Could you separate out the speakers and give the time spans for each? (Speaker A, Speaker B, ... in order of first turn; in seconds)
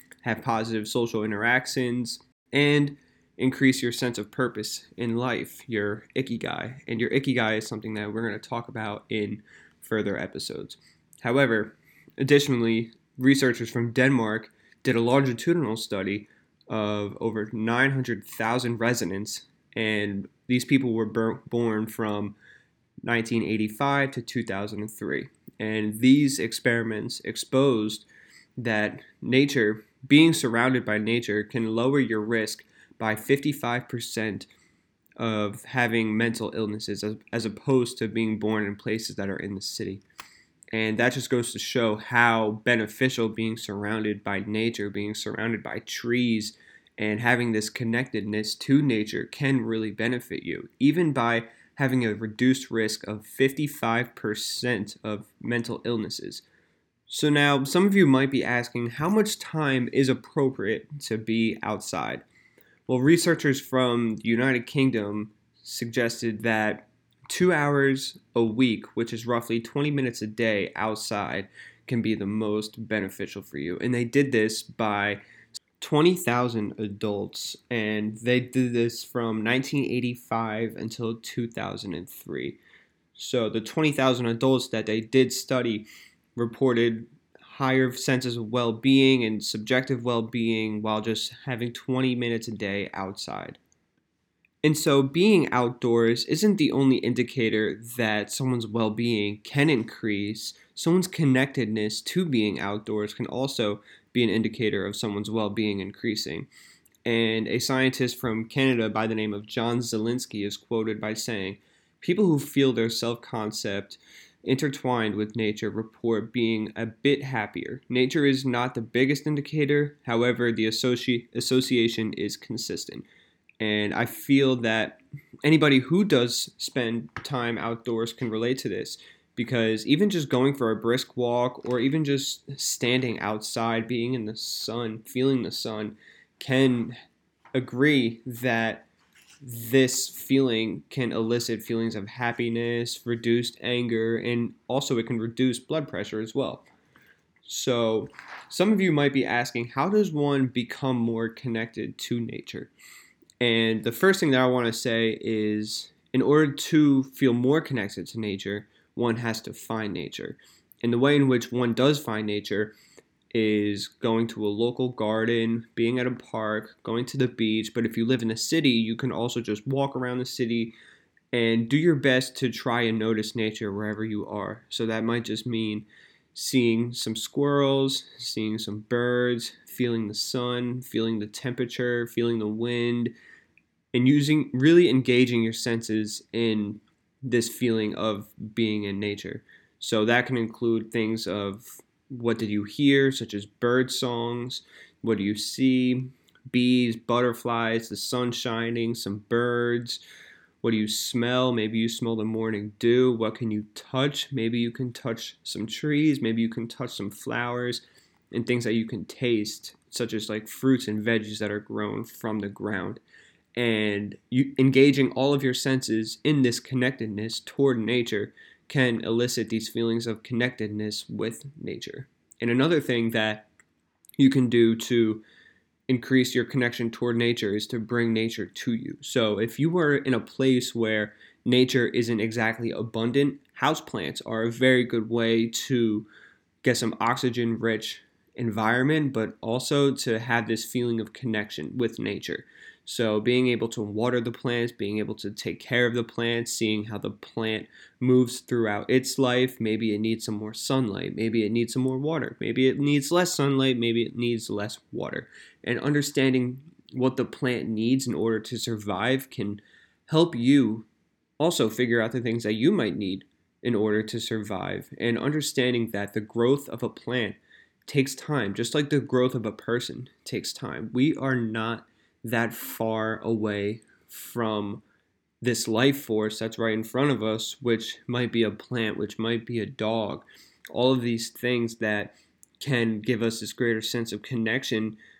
Speaker A: 0.2-22.4, 23.0-28.1, 28.6-34.5, 35.2-40.0, 40.7-56.4, 57.1-62.2, 62.9-75.2, 75.8-82.6, 83.1-93.6, 94.6-106.5, 107.0-123.0, 123.6-136.9, 137.5-138.9, 139.4-146.6, 147.4-152.7, 153.4-162.7, 163.3-170.7, 171.3-183.1, 183.9-200.0, 200.6-213.0, 213.6-223.5, 224.2-225.2, 225.9-236.1, 236.6-260.9, 261.4-274.8, 275.4-285.0